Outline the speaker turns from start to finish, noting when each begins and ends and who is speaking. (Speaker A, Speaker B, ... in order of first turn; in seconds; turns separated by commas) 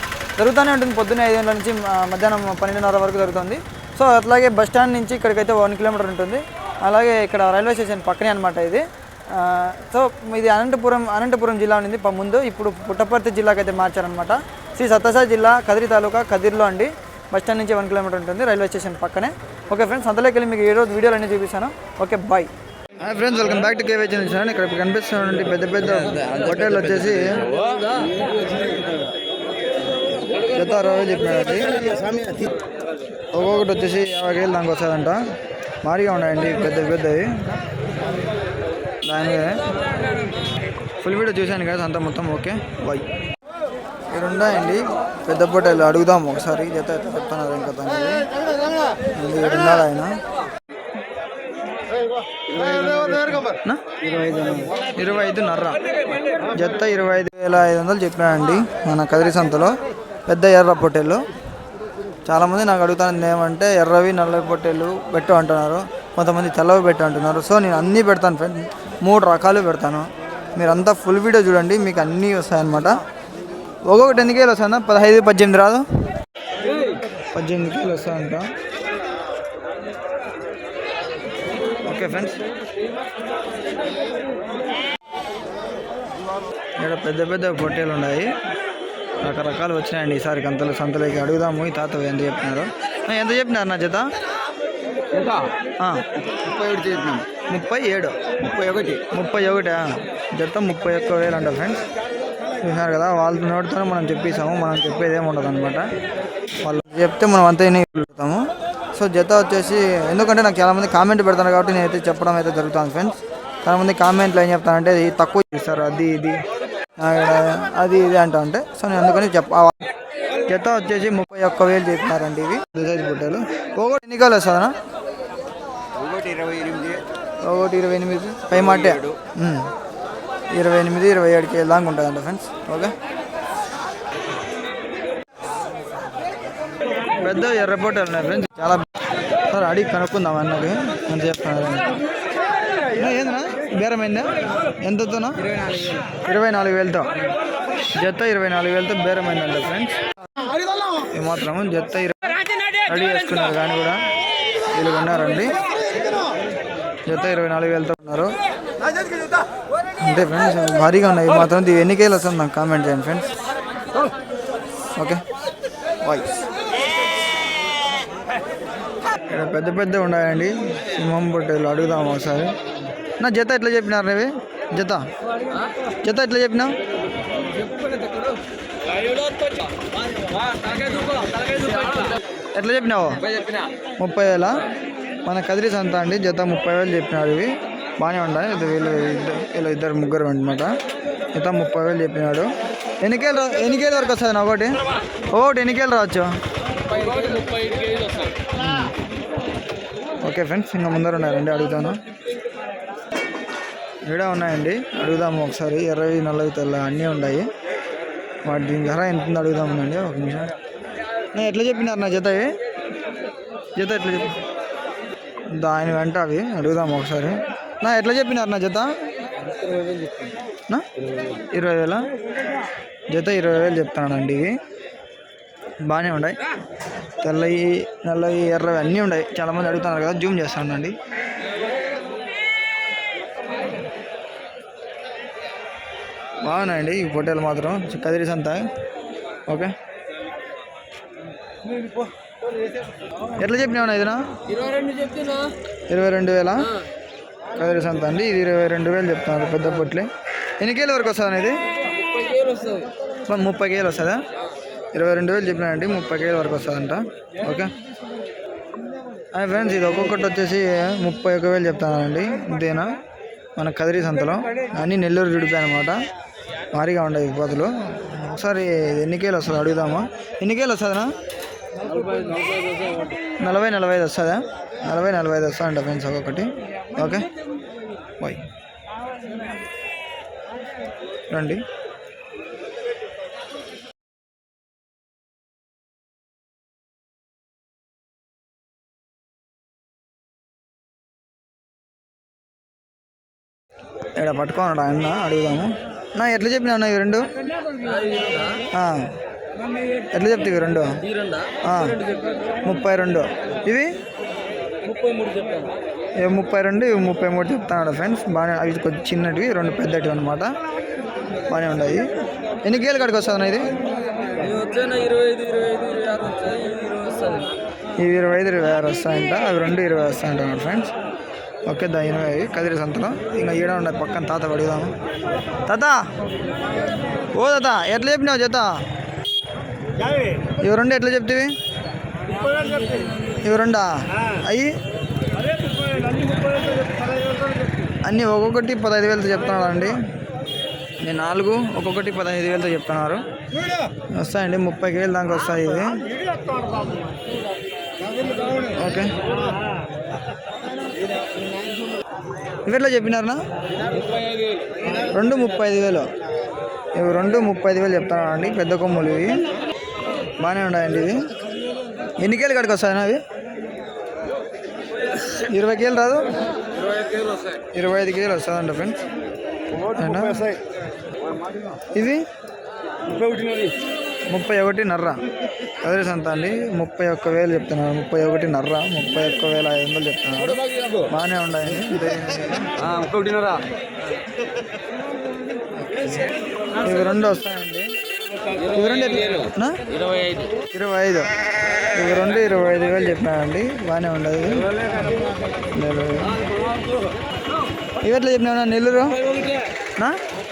Speaker A: 0.4-27.7, Speaker A: 30.5-32.0, Speaker A: 33.3-35.2, Speaker A: 35.8-37.4, Speaker A: 39.0-39.7, Speaker A: 41.0-43.1, Speaker A: 44.1-48.3, Speaker A: 49.1-50.2, Speaker B: 52.4-53.5, Speaker A: 53.6-54.0, Speaker B: 54.0-54.7, Speaker A: 54.9-55.8, Speaker A: 56.5-61.3, Speaker A: 62.2-73.0, Speaker A: 73.9-75.9, Speaker A: 77.3-78.5, Speaker A: 81.8-82.4, Speaker A: 86.8-88.3, Speaker A: 89.2-94.1, Speaker B: 95.1-95.5, Speaker A: 95.8-96.1, Speaker B: 96.5-97.2, Speaker A: 96.7-101.8, Speaker A: 102.6-105.9, Speaker A: 106.6-116.4, Speaker A: 117.0-119.8, Speaker A: 120.5-124.8, Speaker B: 126.1-127.0, Speaker A: 127.4-129.7, Speaker A: 130.5-132.9, Speaker A: 137.2-138.9, Speaker A: 139.5-142.0, Speaker A: 142.9-145.5, Speaker A: 146.2-147.1, Speaker A: 147.9-150.0, Speaker A: 151.1-154.1, Speaker A: 154.7-155.6, Speaker A: 157.1-158.3, Speaker A: 160.0-163.3, Speaker A: 165.0-165.2, Speaker A: 166.0-166.3, Speaker A: 169.3-172.6, Speaker A: 173.2-175.1, Speaker A: 176.0-176.8, Speaker A: 181.6-183.3, Speaker A: 184.0-184.7, Speaker A: 185.2-190.8, Speaker A: 191.3-192.5, Speaker A: 193.0-196.4, Speaker B: 197.1-197.8, Speaker A: 198.6-198.9, Speaker A: 200.2-202.0, Speaker A: 204.1-207.5, Speaker A: 208.4-210.5, Speaker A: 211.3-212.6, Speaker A: 213.8-214.4, Speaker A: 215.5-218.9, Speaker B: 219.5-220.3, Speaker A: 220.7-222.1, Speaker A: 223.1-224.6, Speaker A: 225.8-226.4, Speaker A: 227.2-231.0, Speaker A: 236.4-238.7, Speaker A: 239.5-239.7, Speaker A: 243.4-244.3, Speaker B: 244.9-245.4, Speaker A: 245.9-246.8, Speaker A: 247.5-251.6, Speaker B: 252.4-252.8, Speaker A: 253.3-254.3, Speaker A: 254.9-257.7, Speaker A: 259.3-263.0, Speaker A: 263.6-266.0, Speaker A: 266.7-271.1, Speaker B: 271.9-273.1, Speaker A: 273.4-277.3, Speaker A: 278.2-278.5, Speaker A: 281.3-281.6, Speaker A: 294.2-297.3, Speaker B: 297.9-298.6, Speaker A: 298.7-299.1, Speaker A: 300.1-301.0, Speaker A: 301.6-302.0, Speaker A: 302.6-303.9, Speaker B: 304.9-305.7, Speaker A: 306.2-310.6, Speaker A: 311.5-312.1, Speaker A: 312.6-313.7, Speaker B: 314.4-317.5, Speaker A: 318.0-320.9, Speaker A: 321.7-324.9, Speaker A: 325.7-326.1, Speaker A: 327.3-328.8, Speaker A: 330.5-331.5, Speaker A: 333.4-334.7, Speaker A: 338.0-340.0, Speaker A: 341.0-343.2, Speaker A: 344.1-346.1, Speaker A: 348.7-349.2, Speaker A: 352.6-353.4, Speaker A: 355.1-356.1, Speaker A: 356.9-359.4, Speaker A: 360.4-361.3, Speaker A: 362.2-363.2, Speaker A: 365.3-366.3, Speaker A: 367.7-369.0, Speaker A: 369.9-370.5, Speaker A: 371.9-372.2, Speaker A: 374.3-375.2, Speaker A: 375.8-382.8, Speaker B: 382.9-383.6, Speaker A: 386.8-387.9, Speaker A: 388.7-389.9, Speaker A: 390.7-391.3, Speaker A: 391.9-394.7, Speaker A: 395.7-396.4, Speaker A: 398.0-399.2